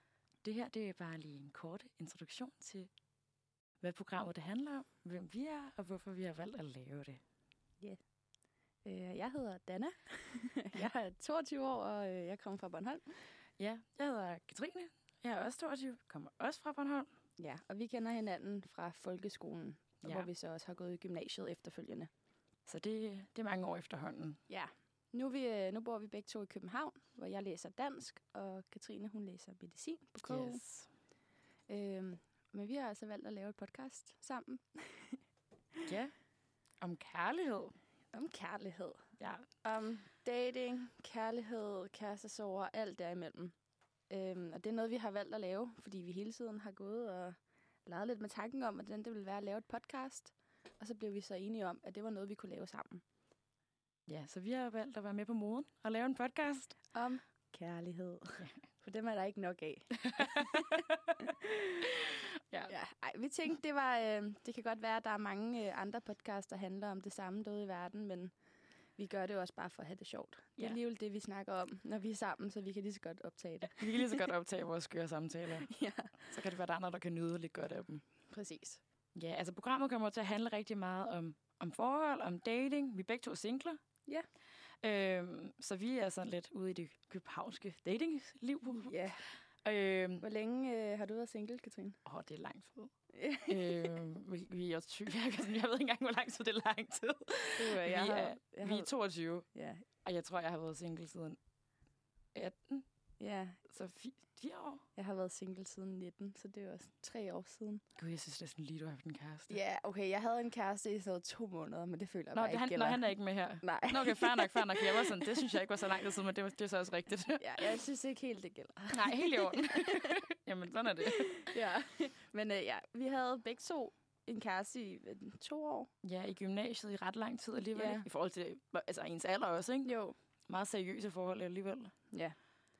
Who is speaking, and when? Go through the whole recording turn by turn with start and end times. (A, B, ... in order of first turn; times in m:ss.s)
0:00.4-0:02.9 A
0:03.8-0:07.2 A
0:08.8-0:13.0 B
0:13.6-0:17.1 A
0:17.4-0:22.1 B
0:22.7-0:24.4 A
0:24.5-0:30.6 B
0:30.2-0:30.9 A
0:31.7-0:35.2 B
0:35.9-0:36.1 A
0:36.8-0:37.8 A
0:38.1-0:39.0 B
0:39.2-0:39.5 A
0:39.6-0:43.5 B
0:44.1-0:53.0 B
0:54.1-0:56.8 A
0:56.9-1:01.9 B
1:00.0-1:01.2 A
1:01.8-1:02.8 A
1:02.7-1:08.3 B
1:09.0-1:14.3 B
1:13.7-1:18.0 A
1:15.5-1:16.2 B
1:18.3-1:18.8 B
1:19.2-1:23.8 A
1:24.8-1:29.0 A
1:28.7-1:29.2 B
1:29.6-1:30.2 A
1:30.2-1:32.0 B
1:32.1-1:32.9 A
1:33.1-1:34.0 B
1:33.5-1:39.5 A
1:37.6-1:38.9 B
1:39.5-1:39.8 B
1:40.0-1:41.4 A
1:42.3-1:42.9 A
1:43.2-1:43.6 B
1:43.7-1:44.8 A
1:45.0-1:47.8 B
1:48.0-1:49.6 A
1:49.5-1:55.5 B
1:52.3-1:57.6 A
1:57.4-2:00.2 B
1:58.9-2:01.5 A
2:01.1-2:05.9 B
2:06.0-2:09.9 A
2:07.8-2:08.1 B
2:09.8-2:10.2 B
2:10.5-2:11.9 A